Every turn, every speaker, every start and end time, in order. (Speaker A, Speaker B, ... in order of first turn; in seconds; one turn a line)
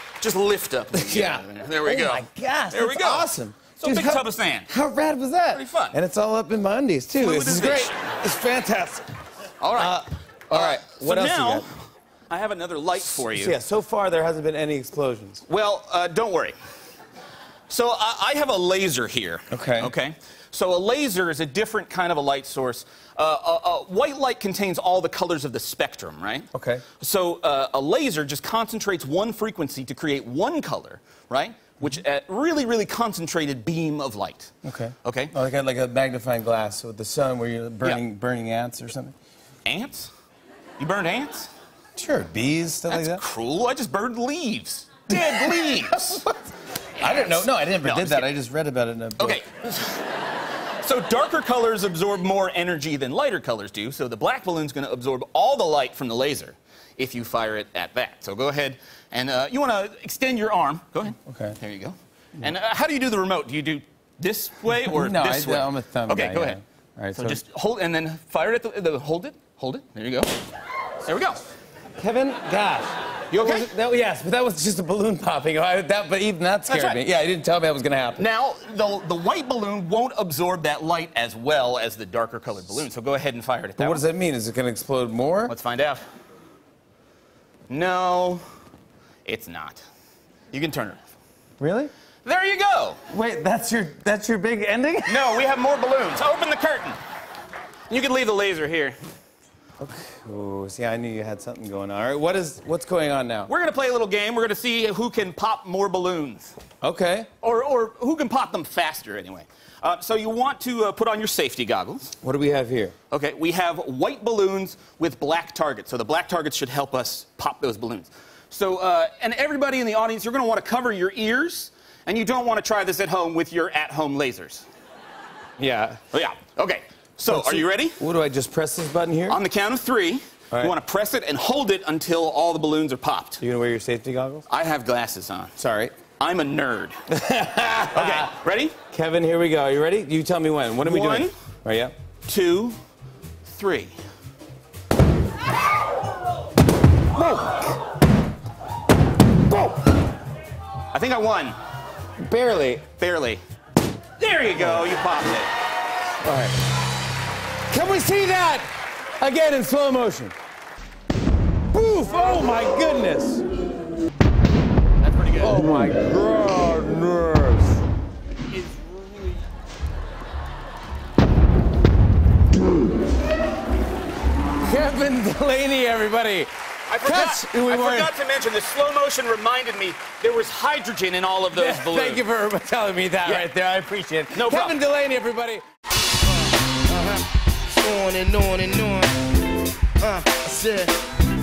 Speaker A: 0.2-4.7
Speaker B: 0.9-9.1
Speaker A: 5.5-6.0
Speaker A: 7.2-7.9
Speaker A: 9.6-13.6
Speaker B: 9.7-11.6
Speaker B: 13.0-15.4
Speaker A: 15.5-16.5
Speaker A: 17.7-26.5
Speaker B: 19.5-19.9
Speaker B: 26.5-26.8
Speaker A: 27.0-35.3
Speaker B: 34.6-39.1
Speaker A: 39.6-40.1
Speaker A: 40.8-41.5
Speaker B: 42.0-43.2
Speaker A: 42.9-46.2
Speaker B: 45.1-49.4
Speaker A: 47.0-48.3
Speaker A: 49.2-50.1
Speaker A: 50.8-66.6
Speaker B: 61.2-61.6
Speaker B: 64.9-67.4
Speaker A: 67.1-70.4
Speaker A: 71.0-71.4
Speaker B: 72.0-78.3
Speaker A: 73.3-73.7
Speaker A: 76.7-77.0
Speaker A: 78.2-84.0
Speaker B: 83.8-85.5
Speaker A: 85.5-86.0
Speaker A: 87.7-88.4
Speaker A: 89.2-89.8
Speaker A: 90.5-91.1
Speaker B: 91.6-91.9
Speaker A: 92.2-93.0
Speaker B: 93.1-95.3
Speaker A: 95.0-97.0
Speaker A: 97.9-99.0
Speaker B: 99.8-103.5
Speaker A: 103.5-106.6
Speaker B: 106.8-107.3
Speaker A: 107.4-112.1
Speaker B: 112.2-112.9
Speaker A: 113.1-124.7
Speaker B: 125.6-126.0
Speaker A: 126.1-128.0
Speaker B: 127.3-129.4
Speaker A: 129.3-133.4
Speaker B: 133.4-134.4
Speaker A: 134.5-135.5
Speaker B: 135.6-135.9
Speaker A: 136.2-136.9
Speaker B: 137.1-138.3
Speaker A: 137.9-138.8
Speaker B: 138.9-141.9
Speaker A: 140.8-141.3
Speaker A: 142.2-142.8
Speaker A: 143.4-143.9
Speaker B: 147.2-147.8
Speaker A: 150.9-151.6
Speaker B: 152.2-152.8
Speaker A: 152.8-153.4
Speaker A: 154.2-155.5
Speaker B: 156.2-156.6
Speaker B: 157.7-158.7
Speaker B: 159.2-160.3
Speaker B: 161.7-163.4
Speaker A: 165.0-165.7
Speaker B: 165.4-167.8
Speaker A: 168.5-169.4
Speaker B: 174.6-176.5
Speaker A: 176.9-182.2
Speaker B: 177.0-178.1
Speaker B: 181.5-185.6
Speaker A: 184.3-184.8
Speaker C: 186.9-189.2
Speaker C: 190.0-190.9